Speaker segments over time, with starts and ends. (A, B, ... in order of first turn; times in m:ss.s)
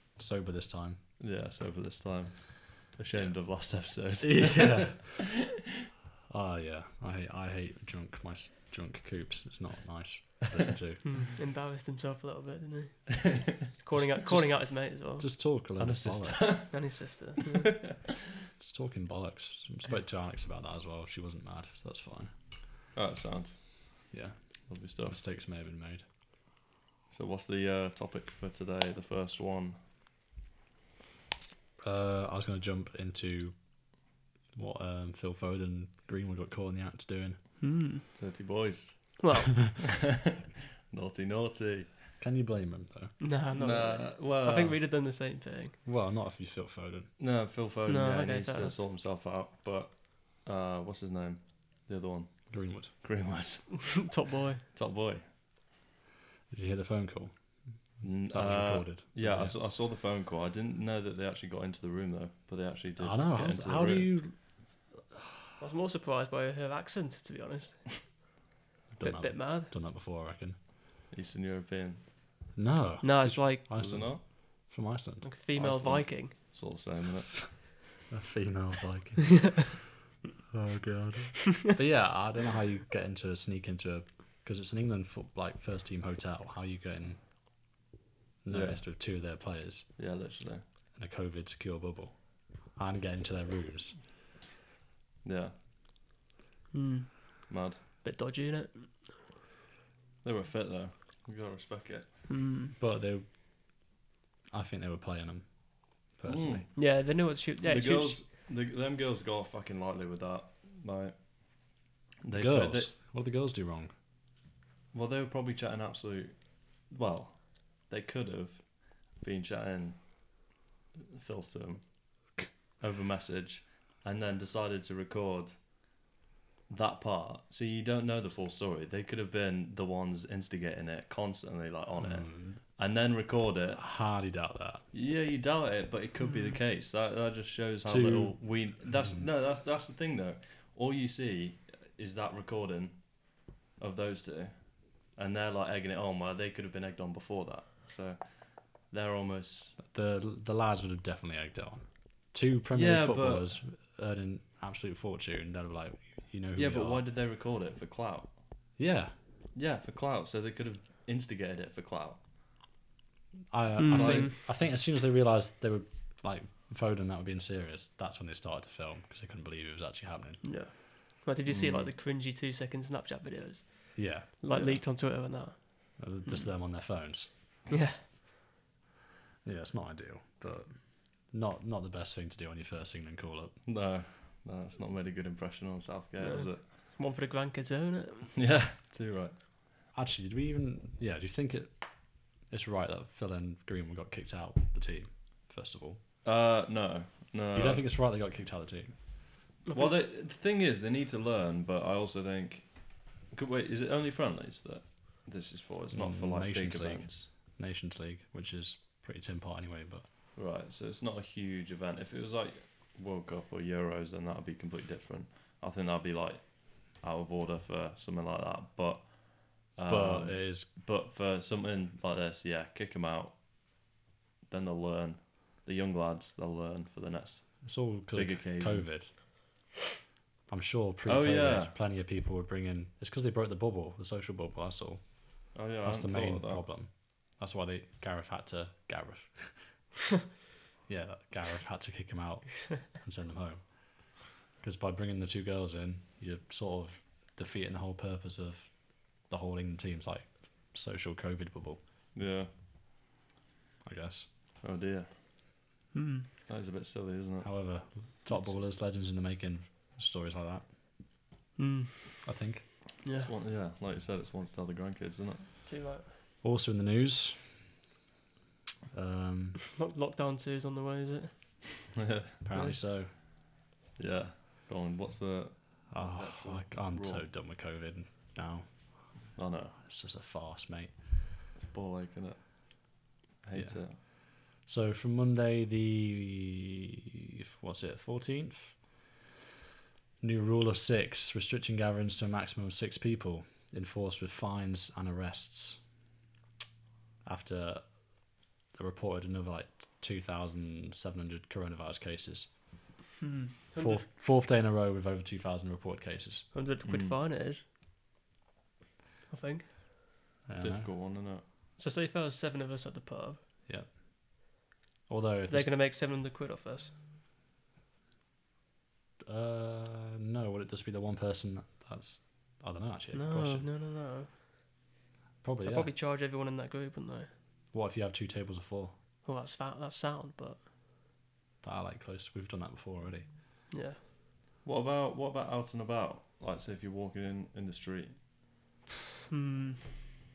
0:00.2-0:01.0 A
0:01.2-0:05.0 B
0:03.1-0:05.2 A
0:06.3-0:11.2 A
0:11.0-0:15.3 C
0:13.9-0:16.7 A
0:15.8-0:17.2 B
0:16.7-0:17.9 C
0:18.6-0:22.3 A
0:22.9-0:24.1 B
0:24.1-0:26.0 A
0:24.7-0:25.2 B
0:27.1-0:29.8 B
0:31.8-0:37.4 A
0:37.6-0:38.0 C
0:38.2-0:40.3 B
0:39.2-0:39.7 C
0:40.9-0:42.1 B
0:42.2-0:43.2 A
0:43.2-0:45.8 C
0:43.5-0:44.8 B
0:45.8-0:47.1 A
0:47.2-0:55.2 B
0:47.9-0:48.8 C
0:52.5-0:52.9 A
0:54.0-0:54.6 C
0:56.5-0:59.6 A
0:58.0-1:04.2 B
1:03.0-1:04.9 A
1:05.6-1:08.4 C
1:08.9-1:10.6 A
1:09.0-1:09.7 C
1:11.1-1:12.1 B
1:12.5-1:15.3 A
1:13.0-1:14.0 C
1:13.7-1:14.2 B
1:15.2-1:16.3 C
1:15.5-1:17.7 B
1:18.1-1:19.9 A
1:20.5-1:27.3 A
1:28.4-1:30.1 A
1:28.5-1:29.4 B
1:30.0-1:30.6 B
1:30.9-1:34.0 A
1:35.2-1:35.5 B
1:36.7-1:39.3 C
1:37.5-1:37.8 B
1:40.2-1:42.1 B
1:42.3-1:42.8 C
1:42.8-1:44.0 A
1:44.5-1:46.7 A
1:46.2-1:53.0 B
1:46.8-1:48.2 C
1:52.3-1:53.9 A
1:54.9-2:00.5 B
2:01.2-2:05.8 B
2:06.7-2:13.8 B
2:12.0-2:12.8 A
2:13.8-2:14.8 A
2:14.9-2:29.8 B
2:16.2-2:16.6 C
2:17.8-2:19.2 A
2:29.8-2:37.1 A
2:32.7-2:33.6 B
2:36.5-2:38.4 B
2:38.8-2:39.1 A
2:39.5-2:42.2 B
2:43.5-2:50.6 A
2:43.8-2:44.4 C
2:43.9-2:44.3 B
2:50.4-2:56.5 C
2:51.5-2:51.9 B
2:53.9-2:54.7 A
2:54.5-2:54.8 B
2:56.0-2:57.4 A
2:57.7-2:58.0 C
2:59.4-3:03.6 A
3:03.6-3:06.6 B
3:06.2-3:08.3 C
3:08.3-3:09.4 B
3:09.9-3:16.0 A
3:16.2-3:17.9 B
3:17.5-3:19.2 A
3:19.6-3:20.0 C
3:19.7-3:27.3 B
3:25.9-3:30.0 A
3:30.3-3:43.8 B
3:39.8-3:40.7 A
3:44.5-3:48.9 B
3:47.6-3:49.3 A
3:50.5-3:59.8 A
3:51.0-3:51.7 B
3:55.5-3:56.6 B
4:00.9-4:11.8 A
4:12.1-4:12.5 B
4:13.8-4:14.3 A
4:14.6-4:15.2 B
4:15.9-4:16.3 C
4:16.5-4:18.6 B
4:17.4-4:20.7 A
4:21.6-4:22.2 C
4:22.2-4:22.7 A
4:23.0-4:23.3 C
4:23.2-4:25.6 B
4:25.6-4:26.1 C
4:26.4-4:27.7 A
4:28.9-4:29.6 A
4:29.7-4:32.0 C
4:32.0-4:32.3 B
4:32.4-4:33.1 A
4:34.0-4:37.3 B
4:35.9-4:41.2 A
4:39.3-4:39.8 B
4:41.5-4:44.0 B
4:43.5-4:46.7 A
4:47.6-4:49.1 A
4:50.2-4:56.0 A
4:57.2-5:02.6 A
5:03.2-5:04.5 C
5:03.8-5:06.5 A
5:06.5-5:07.6 C
5:06.8-5:07.2 B
5:09.3-5:09.7 C
5:10.4-5:10.9 A
5:10.6-5:11.4 B
5:11.8-5:13.4 C
5:13.7-5:14.4 A
5:15.1-5:15.8 A
5:15.5-5:16.9 C
5:19.3-5:23.7 A
5:23.1-5:24.8 C
5:25.4-5:25.9 A
5:25.6-5:27.3 C
5:27.7-5:28.9 A
5:29.2-5:30.6 C
5:31.6-5:33.3 A
5:33.7-5:34.0 C
5:34.6-5:38.2 B
5:39.3-5:39.9 C